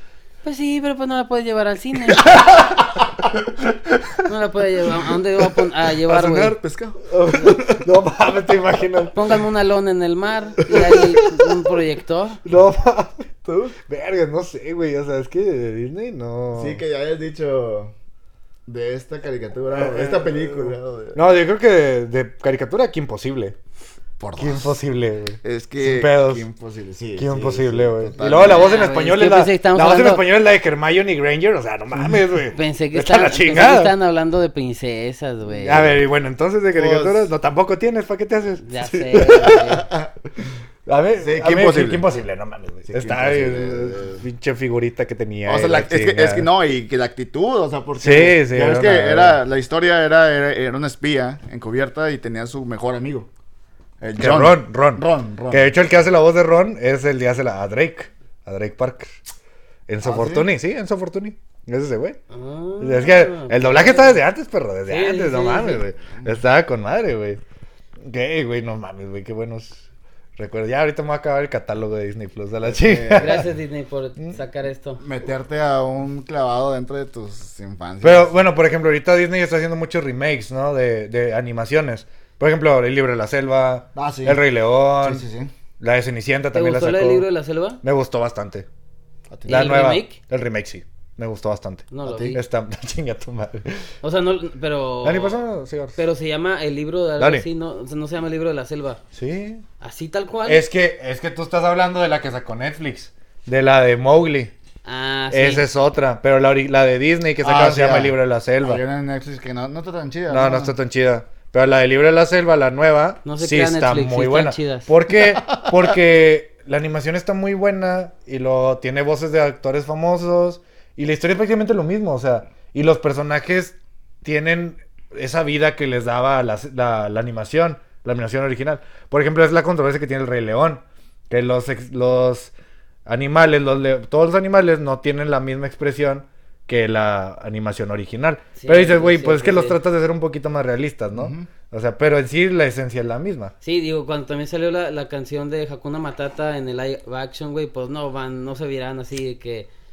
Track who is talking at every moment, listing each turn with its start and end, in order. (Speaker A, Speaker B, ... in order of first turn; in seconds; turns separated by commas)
Speaker A: 0.4-2.3, Speaker B: 2.2-4.3, Speaker A: 4.2-6.5, Speaker B: 5.5-9.3, Speaker C: 6.5-7.1, Speaker A: 9.1-12.4, Speaker B: 10.7-11.3, Speaker B: 12.4-13.2, Speaker C: 13.4-13.8, Speaker B: 13.8-16.8, Speaker C: 16.5-17.9, Speaker C: 18.7-21.2, Speaker B: 19.7-23.6, Speaker C: 24.2-24.8, Speaker B: 24.4-26.4, Speaker C: 25.4-28.9, Speaker B: 27.2-33.9, Speaker A: 28.2-30.3, Speaker A: 32.5-35.9, Speaker B: 35.5-39.7, Speaker C: 36.7-37.3, Speaker A: 38.6-39.9, Speaker C: 39.1-40.1, Speaker B: 40.9-46.5, Speaker C: 41.2-42.1, Speaker C: 42.9-44.2, Speaker C: 45.5-53.3, Speaker B: 48.0-49.4, Speaker C: 54.0-55.7, Speaker B: 54.2-59.2, Speaker B: 59.9-62.2, Speaker C: 60.0-60.5, Speaker A: 62.3-64.2, Speaker B: 62.8-67.4, Speaker A: 64.9-65.8, Speaker B: 68.0-69.8, Speaker B: 70.4-73.5, Speaker C: 72.6-73.5, Speaker A: 73.2-75.0, Speaker C: 75.0-78.4, Speaker B: 78.0-85.2, Speaker C: 83.9-84.4, Speaker C: 85.0-85.5, Speaker B: 85.8-87.2, Speaker A: 86.5-87.8, Speaker B: 87.8-88.7, Speaker C: 89.3-89.7, Speaker A: 89.5-90.2, Speaker B: 89.5-93.9, Speaker A: 91.9-92.4, Speaker C: 92.0-92.4, Speaker A: 94.0-95.4, Speaker B: 95.0-96.0, Speaker A: 96.0-99.0, Speaker B: 97.2-97.5, Speaker B: 99.1-99.6, Speaker A: 99.8-100.6, Speaker B: 100.5-104.5, Speaker A: 104.8-105.7, Speaker B: 105.3-108.8, Speaker C: 107.4-110.7, Speaker B: 110.3-132.5, Speaker A: 113.2-114.9, Speaker B: 133.1-143.5, Speaker A: 138.6-139.8, Speaker C: 141.1-141.5, Speaker A: 143.6-149.7